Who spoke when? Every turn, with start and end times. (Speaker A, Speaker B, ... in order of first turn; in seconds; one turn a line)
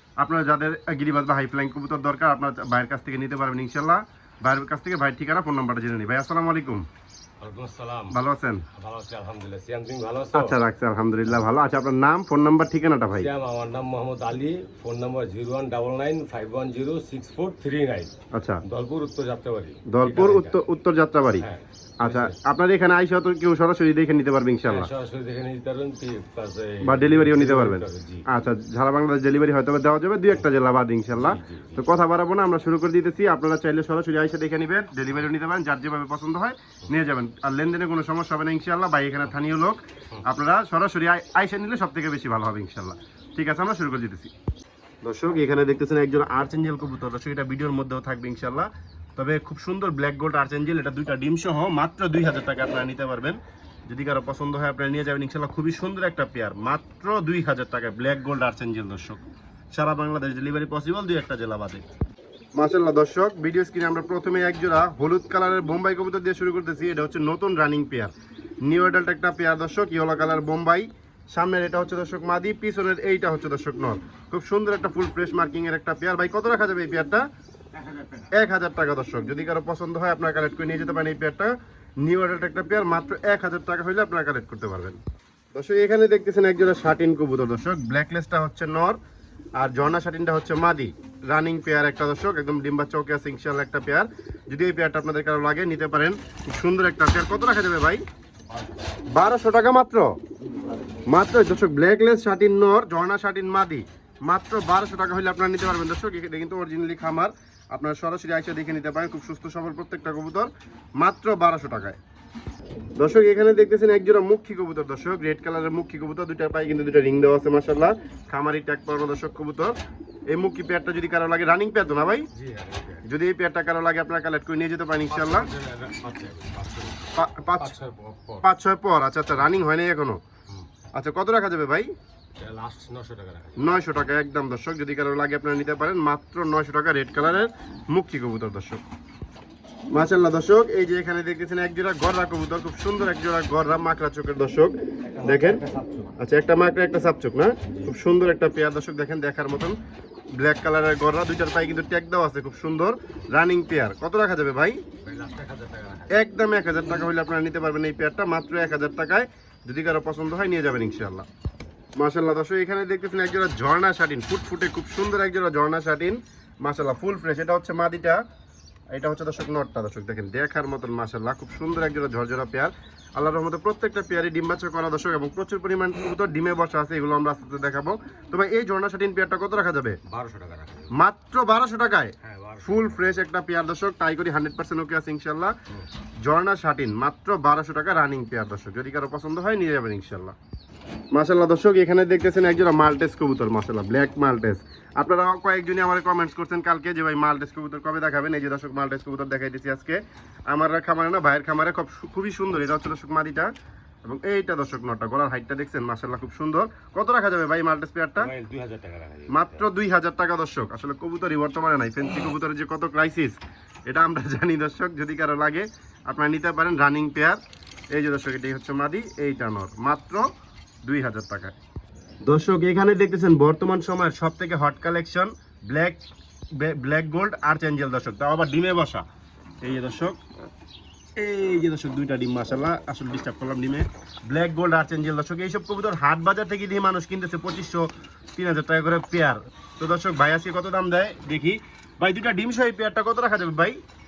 Speaker A: 0.2-6.9
Speaker B: 7.4-8.2
Speaker A: 8.1-8.7
Speaker B: 8.8-10.6
Speaker A: 10.3-13.3
Speaker B: 13.2-18.1
Speaker A: 18.3-18.6
Speaker B: 18.6-20.6
Speaker A: 19.9-21.5
Speaker B: 21.4-22.4
Speaker A: 22.0-24.9
Speaker B: 24.6-28.2
Speaker A: 26.8-44.3
Speaker B: 31.1-31.8
Speaker A: 45.0-59.2
Speaker A: 59.7-61.9
Speaker A: 62.5-68.1
Speaker A: 68.7-77.3
Speaker B: 77.7-78.4
Speaker A: 78.3-81.5
Speaker A: 82.0-85.0
Speaker A: 85.5-89.0
Speaker A: 89.6-98.0
Speaker B: 98.5-99.0
Speaker A: 99.1-100.2
Speaker A: 101.1-112.0
Speaker A: 113.0-119.7
Speaker A: 120.3-122.3
Speaker B: 122.3-123.0
Speaker A: 123.0-125.5
Speaker B: 125.1-128.5
Speaker A: 127.2-127.8
Speaker A: 128.4-130.2
Speaker A: 130.9-131.9
Speaker B: 132.4-133.8
Speaker A: 133.6-138.8
Speaker A: 139.9-145.6
Speaker B: 145.0-146.2
Speaker A: 146.2-149.8
Speaker B: 147.7-147.9
Speaker A: 150.3-154.8
Speaker B: 155.0-156.2
Speaker A: 156.1-161.3
Speaker A: 162.0-168.2
Speaker A: 168.9-180.0
Speaker B: 180.1-180.9
Speaker A: 180.9-185.5
Speaker B: 182.2-183.2
Speaker A: 186.2-190.4
Speaker A: 191.1-203.5
Speaker A: 204.0-208.3
Speaker B: 208.2-209.7
Speaker A: 209.3-217.4
Speaker A: 217.9-220.3
Speaker A: 220.8-221.6
Speaker A: 222.2-226.0
Speaker A: 226.6-229.1
Speaker A: 229.6-230.2
Speaker A: 231.2-243.8